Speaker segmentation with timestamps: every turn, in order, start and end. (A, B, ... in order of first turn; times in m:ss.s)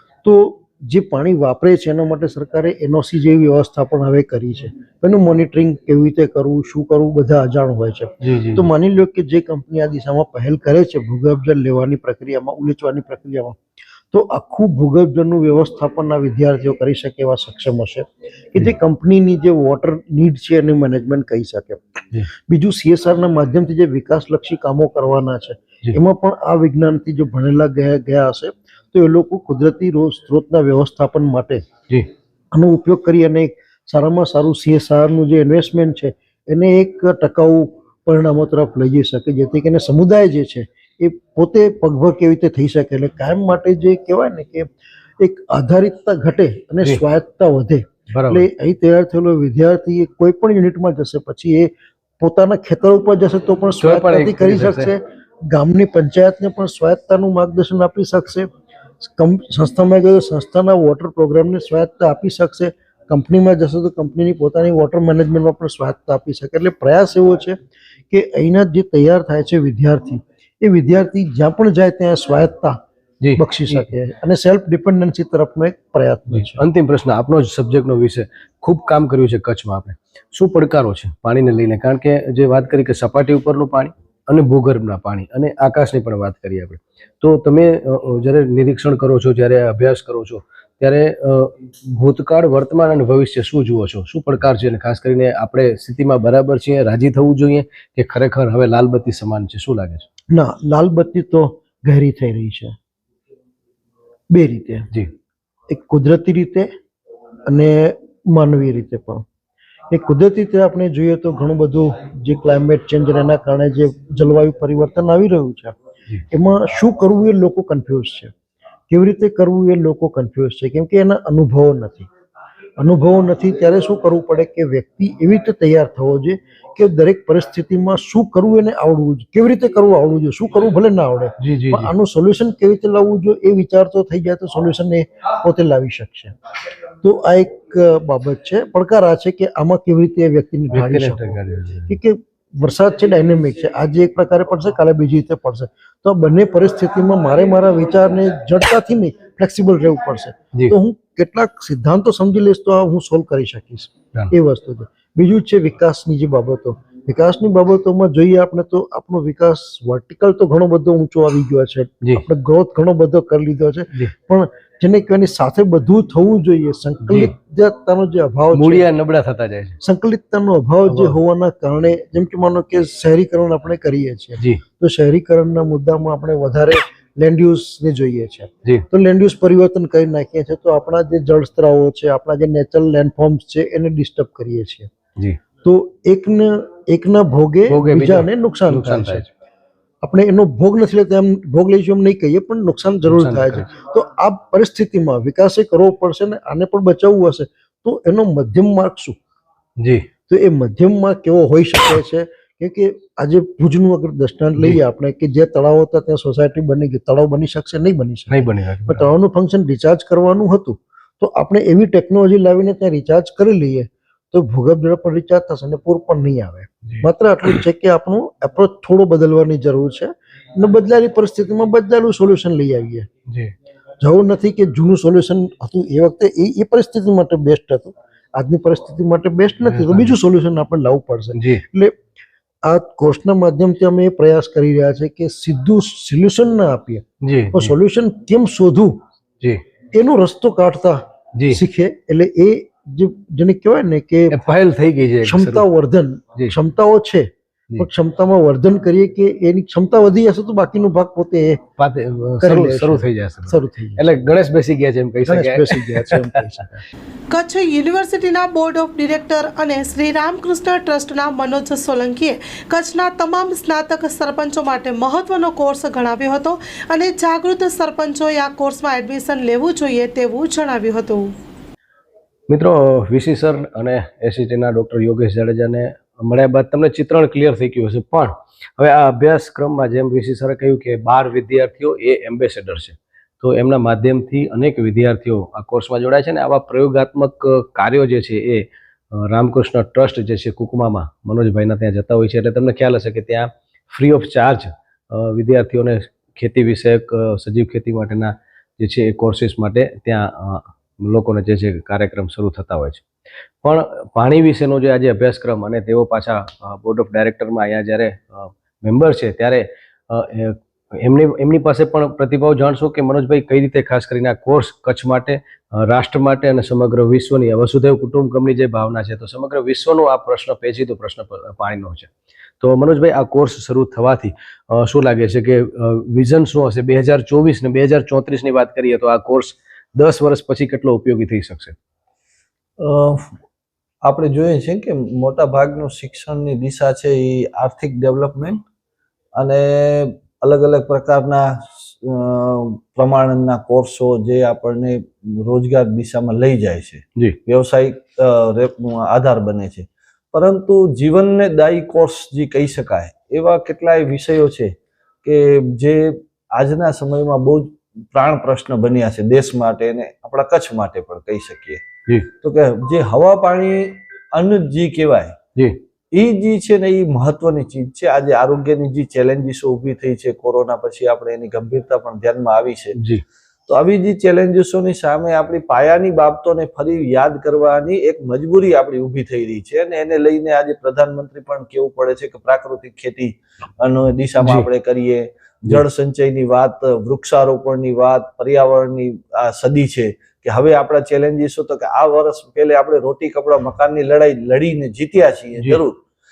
0:00.2-0:13.6 A
0:08.2-0:08.6 B
0:14.1-0:21.8 A
0:22.3-0:31.7 A
0:32.5-1:07.6 A
0:48.1-0:48.4 B
0:53.8-0:54.9 B
1:08.1-1:12.8 A
1:13.2-1:13.8 B
1:13.4-1:16.6 A
1:16.3-1:40.1 B
1:40.3-1:42.8 A
1:44.3-1:44.9 A
1:45.7-1:46.7 A
1:47.5-1:49.2 A
1:49.9-1:55.8 A
1:56.3-1:58.3 A
1:58.9-2:02.1 A
2:02.8-2:16.3 A
2:11.4-2:11.9 B
2:17.0-2:48.8 A
2:20.7-2:21.9 B
2:47.0-2:47.3 B
2:48.5-2:49.8 B
2:49.8-3:04.9 A
2:50.9-2:51.2 B
3:05.6-3:09.3 A
3:07.7-3:09.2 B
3:10.0-3:19.2 A
3:13.1-3:13.6 B
3:19.8-3:20.0 B
3:20.3-3:43.1 A
3:28.3-3:29.1 B
3:43.3-3:43.5 B
3:44.0-3:52.0 A
3:49.7-3:50.1 B
3:51.3-3:51.6 B
3:52.6-3:59.0 A
3:57.2-3:57.7 B
3:59.9-4:04.4 A
4:04.3-4:05.6 B
4:05.2-4:11.6 A
4:11.8-4:16.4 B
4:12.4-4:14.2 A
4:15.2-4:16.8 A
4:17.3-4:31.3 C
4:32.5-5:03.0 B
5:03.6-5:22.1 B
5:22.6-5:31.8 B
5:32.8-5:33.3 D
5:34.0-5:38.6 D
5:39.4-6:01.8 D
6:02.3-6:05.4 D
6:06.1-6:13.0 D
6:13.0-6:13.2 B
6:13.7-6:36.0 D
6:24.4-6:24.7 B